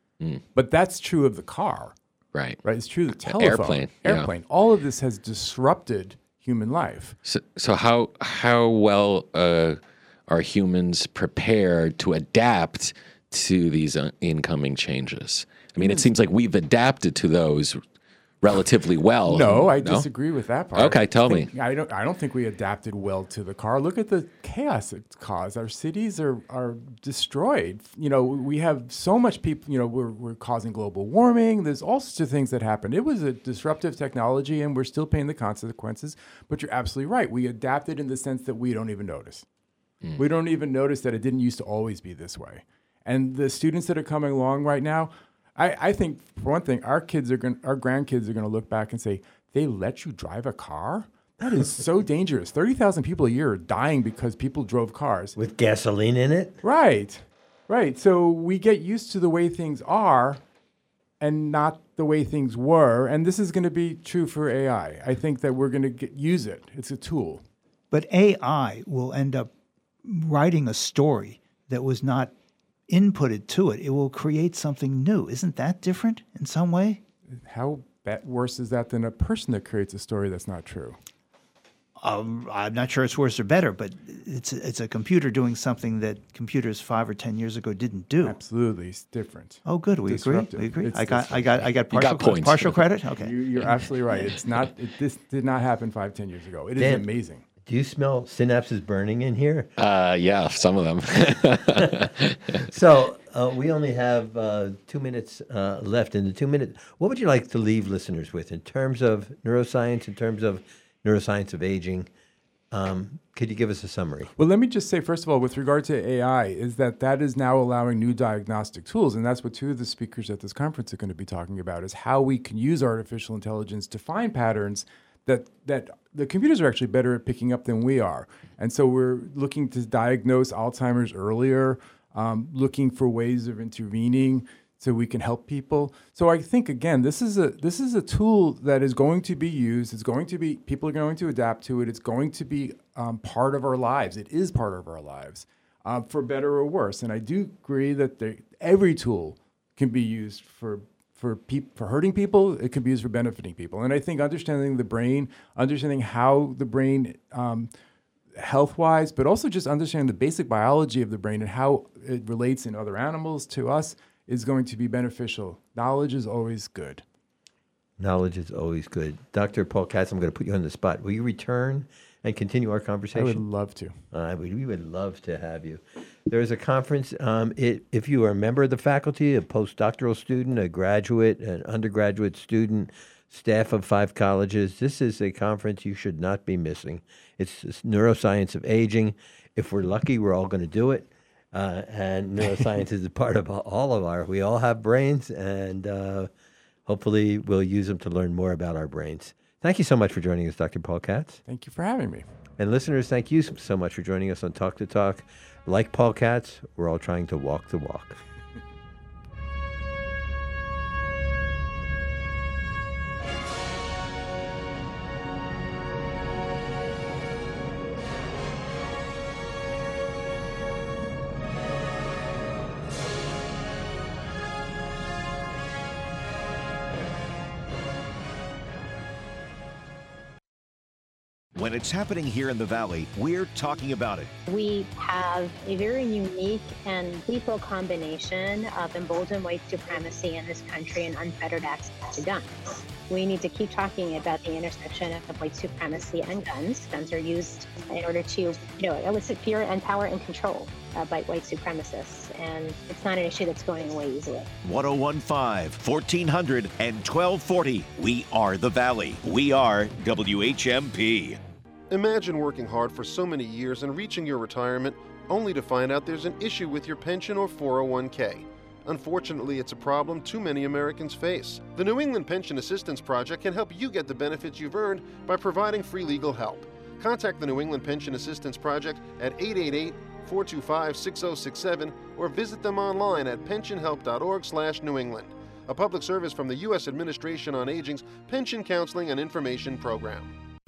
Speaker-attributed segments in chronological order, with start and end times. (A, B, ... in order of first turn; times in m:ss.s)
0:00.6-0:02.0 A
0:02.3-0:02.6 B
0:02.6-0:07.2 A
0:03.2-0:04.3 B
0:07.2-0:17.8 B
0:15.8-0:16.1 A
0:18.4-0:20.1 B
0:19.3-0:39.4 A
0:20.7-0:21.5 B
0:40.0-0:40.3 B
0:40.2-0:55.4 A
0:55.4-0:56.6 C
0:56.6-1:00.4 A
1:01.2-1:07.4 A
1:07.9-1:09.5 D
1:10.0-1:12.3 D
1:12.9-1:17.0 D
1:17.3-1:21.0 A
1:22.0-1:28.4 D
1:28.2-1:31.5 A
1:29.6-1:33.4 D
1:31.4-1:32.9 B
1:33.2-1:37.4 A
1:33.5-1:34.7 B
1:36.8-1:37.1 C
1:37.6-1:39.7 C
1:39.8-1:42.6 B
1:42.7-1:52.1 C
1:52.7-1:54.3 C
1:54.4-2:37.7 A
2:38.4-2:47.0 A
2:48.0-2:53.4 C
2:53.1-2:54.0 A
2:54.1-3:16.3 C
3:16.9-3:21.4 C
3:21.5-3:22.3 A
3:22.6-3:28.2 C
3:51.6-3:54.3 E
3:54.5-4:02.5 F
4:03.1-4:14.5 F
4:14.6-4:21.4 E
4:21.9-4:50.3 G